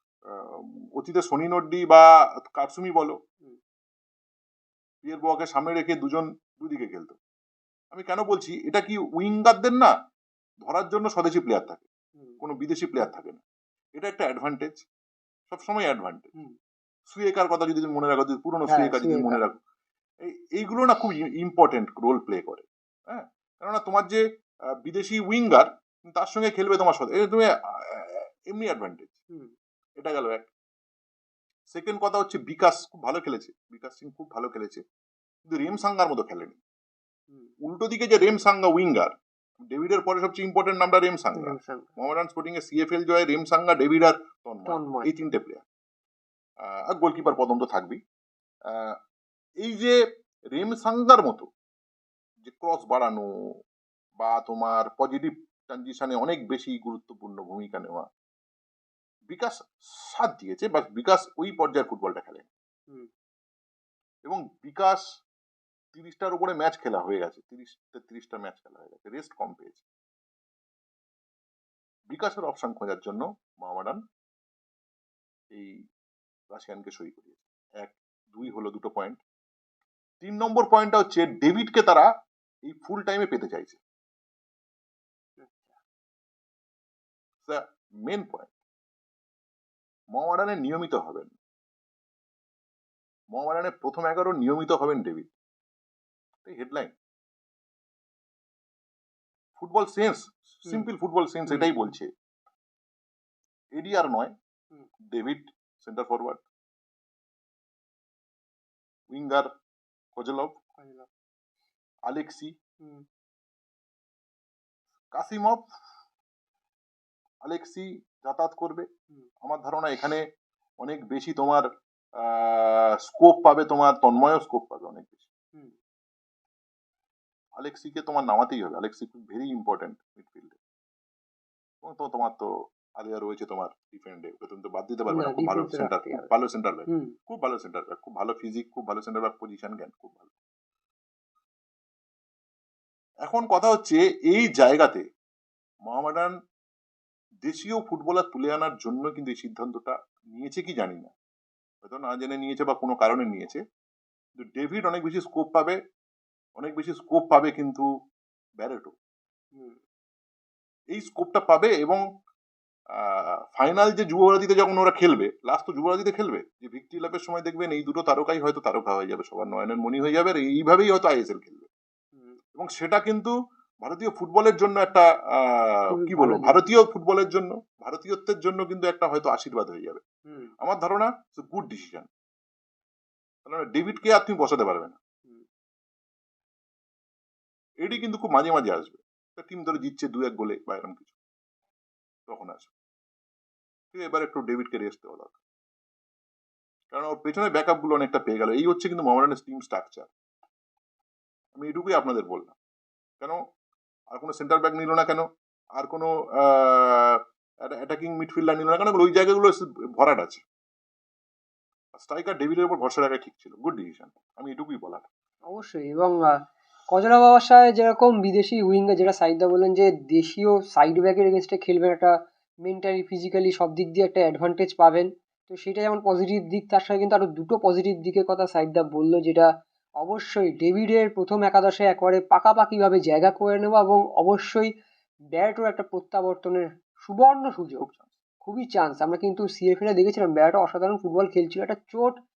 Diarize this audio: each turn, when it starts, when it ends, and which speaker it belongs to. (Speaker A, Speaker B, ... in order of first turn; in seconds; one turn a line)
Speaker A: 0.3-3.1
Speaker A: 5.0-7.2
Speaker A: 7.9-9.9
Speaker A: 10.6-11.9
Speaker A: 12.4-13.4
Speaker A: 13.9-14.8
Speaker A: 15.5-16.3
Speaker A: 17.1-19.6
Speaker B: 18.7-19.4
Speaker A: 20.2-24.2
Speaker A: 24.8-29.1
Speaker A: 30.0-30.5
Speaker A: 31.7-34.8
Speaker A: 35.5-36.6
Speaker A: 37.6-39.1
Speaker A: 39.7-45.6
Speaker B: 41.3-41.9
Speaker B: 44.7-45.1
Speaker A: 46.6-48.0
Speaker A: 48.7-49.0
Speaker A: 49.6-50.0
Speaker A: 50.5-51.5
Speaker A: 52.4-53.2
Speaker A: 54.2-58.0
Speaker A: 59.3-62.5
Speaker A: 64.2-65.0
Speaker A: 65.9-69.8
Speaker A: 72.1-74.0
Speaker A: 76.5-79.2
Speaker A: 80.2-82.1
Speaker A: 82.6-83.8
Speaker B: 85.4-85.8
Speaker A: 87.5-88.5
Speaker A: 90.1-91.3
Speaker A: 93.3-95.3
Speaker A: 96.4-96.9
Speaker A: 99.6-102.1
Speaker B: 101.5-101.9
Speaker A: 103.7-104.3
Speaker A: 105.1-106.4
Speaker A: 109.1-109.5
Speaker A: 110.2-110.5
Speaker B: 110.8-111.1
Speaker A: 112.1-112.5
Speaker A: 115.1-115.6
Speaker A: 117.4-118.8
Speaker A: 119.4-120.2
Speaker A: 120.8-121.6
Speaker A: 122.2-125.3
Speaker A: 127.6-130.6
Speaker A: 131.8-140.3
Speaker B: 135.1-136.3
Speaker A: 143.2-145.0
Speaker A: 145.9-146.3
Speaker A: 147.4-151.1
Speaker A: 151.8-153.6
Speaker A: 154.4-155.8
Speaker A: 156.6-157.9
Speaker A: 158.6-158.9
Speaker B: 159.5-159.8
Speaker A: 160.9-162.0
Speaker A: 162.9-171.7
Speaker A: 172.6-173.3
Speaker A: 173.8-180.0
Speaker B: 175.9-176.6
Speaker B: 180.3-180.5
Speaker A: 180.6-182.1
Speaker A: 183.4-185.0
Speaker A: 187.8-191.2
Speaker A: 192.3-192.7
Speaker A: 193.9-195.4
Speaker A: 196.9-200.1
Speaker A: 201.5-202.6
Speaker A: 204.1-210.4
Speaker A: 211.9-215.1
Speaker B: 215.5-216.3
Speaker B: 216.9-222.1
Speaker B: 222.6-229.5
Speaker B: 230.0-234.7
Speaker B: 235.3-237.8
Speaker A: 237.8-238.2
Speaker B: 238.4-242.2